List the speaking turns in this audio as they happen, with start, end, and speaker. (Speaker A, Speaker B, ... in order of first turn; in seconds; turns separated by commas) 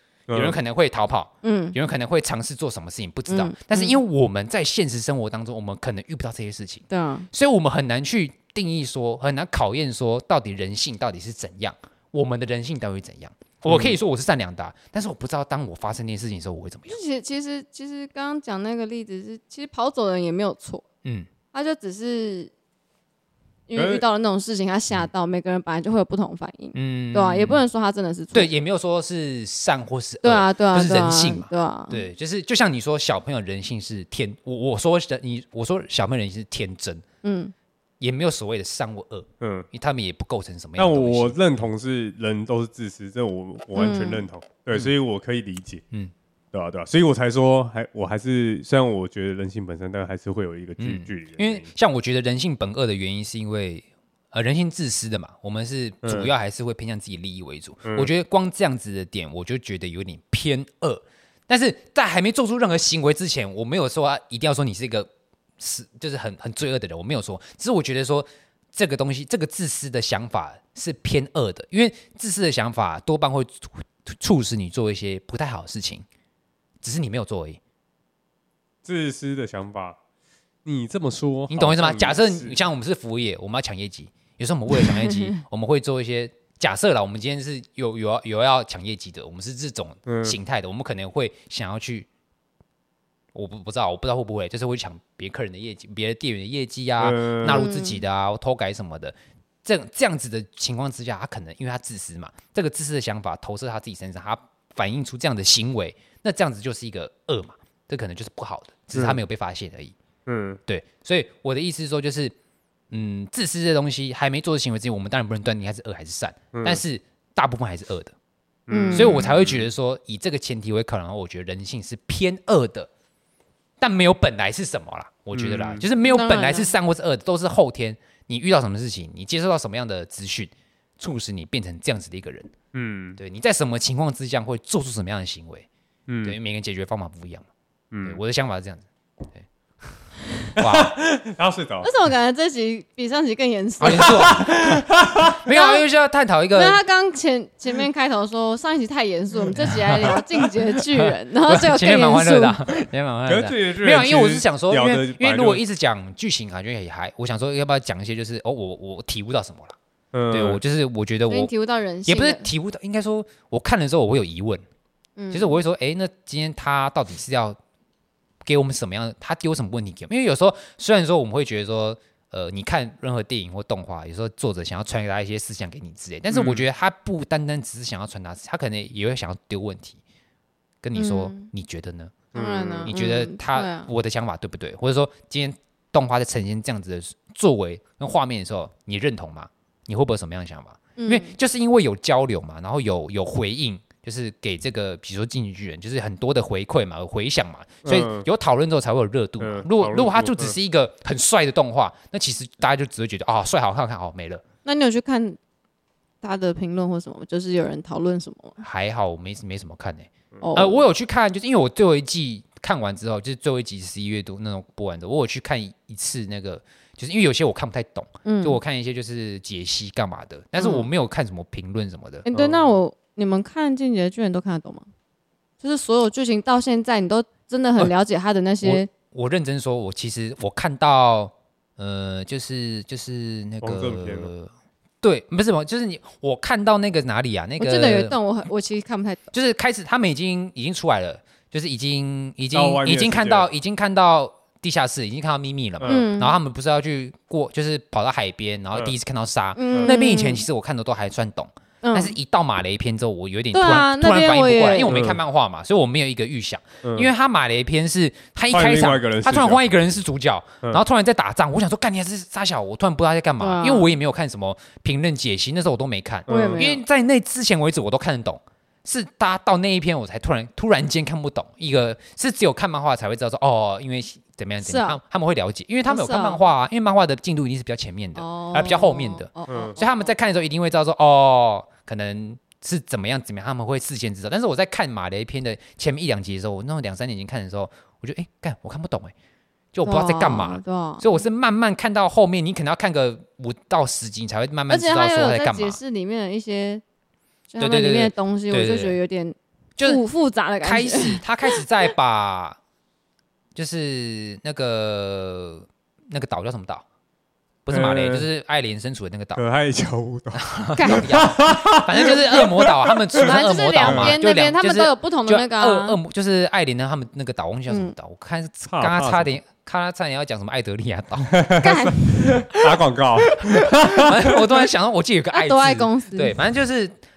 Speaker A: 0.3-0.6, Speaker B: 0.3-17.0, Speaker C: 1.4-1.8, Speaker C: 3.3-4.0, Speaker C: 6.9-7.3, Speaker A: 13.7-13.9, Speaker C: 16.9-20.8, Speaker C: 21.5-22.5, Speaker C: 23.7-28.5, Speaker A: 23.7-24.0, Speaker B: 26.7-27.6, Speaker B: 28.3-37.0, Speaker C: 30.2-32.0, Speaker C: 37.2-37.5, Speaker B: 38.0-41.5, Speaker A: 39.4-39.7, Speaker A: 40.8-45.8, Speaker C: 43.7-44.2, Speaker A: 46.5-51.7, Speaker B: 50.8-76.0, Speaker A: 56.0-56.3, Speaker A: 57.8-58.1, Speaker B: 76.8-77.6, Speaker A: 78.8-80.0, Speaker A: 80.6-82.6, Speaker B: 81.5-92.1, Speaker C: 84.9-85.2, Speaker A: 90.0-90.4, Speaker B: 93.3-109.9, Speaker A: 97.0-97.7, Speaker C: 97.4-98.0, Speaker A: 108.9-109.2, Speaker A: 110.2-110.6, Speaker B: 110.7-112.3, Speaker B: 112.9-118.1, Speaker A: 116.5-116.8, Speaker A: 118.7-119.7, Speaker C: 118.7-119.2, Speaker B: 118.9-122.9, Speaker B: 123.8-132.5, Speaker A: 125.3-125.8, Speaker C: 126.0-126.7, Speaker A: 132.7-133.2, Speaker B: 133.2-135.7, Speaker A: 136.1-136.3, Speaker B: 136.2-137.5, Speaker A: 137.9-138.2, Speaker B: 138.0-139.4, Speaker B: 140.6-140.9, Speaker A: 140.6-141.9, Speaker C: 141.8-144.4, Speaker B: 143.8-146.8, Speaker A: 143.8-145.3, Speaker C: 145.5-145.8, Speaker C: 146.5-152.6, Speaker B: 150.9-159.8, Speaker A: 153.2-155.6, Speaker A: 160.1-160.6, Speaker B: 160.3-161.5, Speaker C: 161.3-162.4, Speaker B: 162.1-164.6, Speaker C: 165.2-165.6, Speaker B: 165.3-167.6, Speaker B: 168.4-180.0, Speaker A: 176.3-176.6, Speaker B: 180.8-182.2, Speaker C: 180.9-181.5, Speaker A: 182.3-182.9, Speaker C: 182.3-183.9, Speaker B: 182.8-204.4, Speaker C: 191.0-191.3, Speaker A: 197.8-198.2, Speaker A: 199.4-200.5, Speaker C: 204.6-205.4, Speaker C: 206.2-208.6, Speaker B: 208.6-222.2, Speaker C: 210.4-210.8, Speaker C: 218.2-218.6, Speaker C: 220.6-220.9, Speaker C: 222.2-224.8, Speaker A: 222.3-222.7, Speaker C: 225.6-228.9, Speaker B: 228.6-234.5, Speaker A: 233.6-234.3, Speaker B: 235.0-238.2, Speaker C: 237.6-239.3, Speaker B: 239.3-289.1, Speaker A: 242.5-243.5, Speaker C: 245.8-246.3, Speaker C: 249.6-250.4, Speaker C: 251.8-252.2, Speaker C: 253.5-254.9, Speaker A: 254.8-255.2, Speaker A: 256.8-257.1, Speaker A: 258.5-259.6, Speaker C: 263.4-263.9, Speaker A: 266.3-266.7, Speaker C: 266.3-266.8, Speaker C: 274.6-275.0, Speaker C: 275.9-276.4, Speaker C: 278.1-280.1, Speaker A: 279.5-279.8, Speaker B: 289.7-295.8, Speaker C: 289.8-291.1, Speaker C: 294.7-296.8, Speaker C: 297.5-301.6, Speaker B: 297.6-299.0, Speaker B: 300.6-302.6, Speaker B: 303.5-306.8, Speaker B: 307.6-309.4, Speaker A: 307.7-308.3, Speaker A: 309.3-314.2, Speaker B: 310.4-321.4, Speaker C: 310.8-311.2, Speaker C: 313.1-316.0, Speaker C: 317.7-317.9, Speaker A: 318.7-319.3, Speaker A: 321.3-324.1, Speaker C: 321.6-322.0, Speaker B: 323.4-327.0, Speaker C: 325.3-326.4